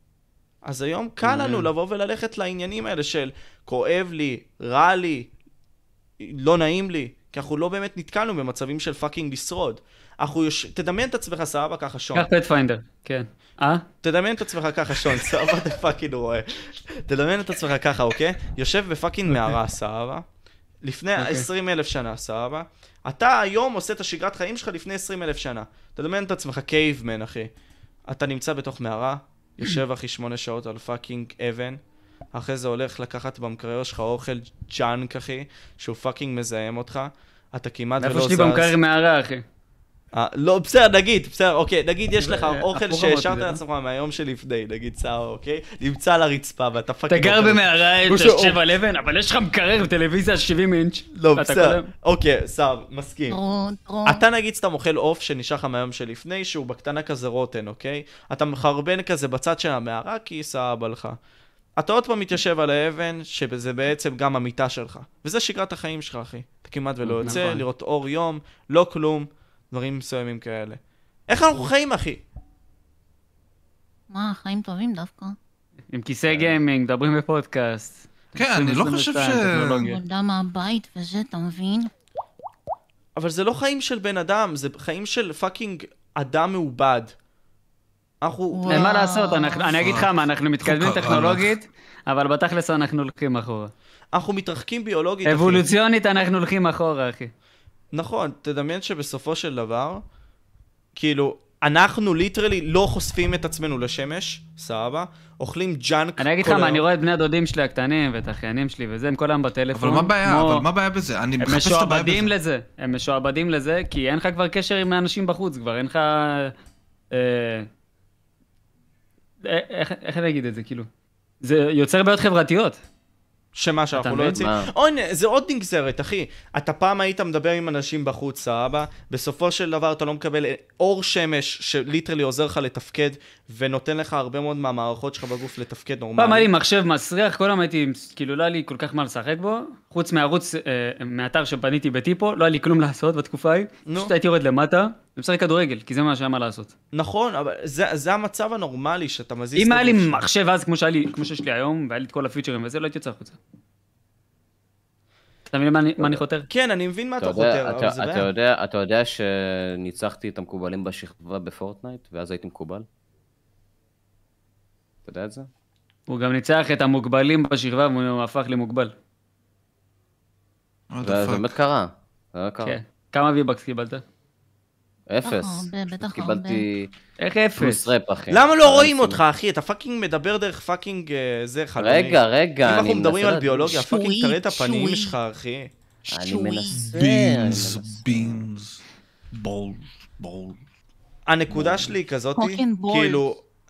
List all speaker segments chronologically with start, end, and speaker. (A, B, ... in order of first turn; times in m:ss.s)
0:00.6-0:05.3 A
0:01.2-0:01.7 B
0:06.2-0:12.3 A
0:12.2-0:13.8 B
0:14.0-0:20.2 A
0:20.8-0:27.5 A
0:21.2-0:21.5 B
0:28.1-0:31.8 A
0:32.3-0:38.7 A
0:38.0-0:39.4 B
0:40.1-0:48.6 A
0:42.2-0:43.6 B
0:47.1-0:51.9 B
0:51.2-0:53.4 A
0:53.3-0:54.2 C
0:54.0-1:01.2 A
1:01.8-1:12.2 A
1:07.0-1:07.4 D
1:07.2-1:07.6 B
1:14.1-1:15.4 C
1:15.9-1:20.0 B
1:18.4-1:19.9 E
1:19.8-1:21.9 C
1:23.2-1:27.1 A
1:28.2-1:28.9 A
1:28.5-1:29.7 C
1:28.7-1:33.7 B
1:29.8-1:31.6 E
1:34.1-1:35.7 A
1:35.2-1:37.3 B
1:37.9-1:40.0 A
1:41.0-1:46.8 A
1:46.2-1:50.7 B
1:49.7-1:52.3 E
1:51.4-1:56.5 B
1:57.1-1:57.7 B
1:59.4-2:00.9 B
2:01.4-2:02.8 B
2:03.5-2:16.5 A
2:03.9-2:04.4 B
2:04.4-2:04.7 D
2:16.2-2:26.7 B
2:23.9-2:24.1 A
2:26.9-2:30.3 A
2:29.6-2:33.4 B
2:35.5-2:36.5 B
2:36.5-2:38.3 A
2:37.2-2:42.9 D
2:45.0-2:45.5 D
2:46.1-2:48.9 B
2:50.9-2:51.5 E
2:51.0-2:52.8 D
2:52.6-2:54.0 B
2:55.1-2:56.9 D
2:55.2-2:56.6 C
2:57.2-2:57.9 B
2:57.6-2:59.2 D
2:58.3-3:05.7 A
3:01.8-3:03.8 D
3:03.7-3:05.2 C
3:06.1-3:07.0 C
3:06.1-3:08.4 D
3:06.7-3:08.8 E
3:09.3-3:10.6 E
3:11.3-3:13.4 A
3:11.6-3:11.9 D
3:12.4-3:13.2 C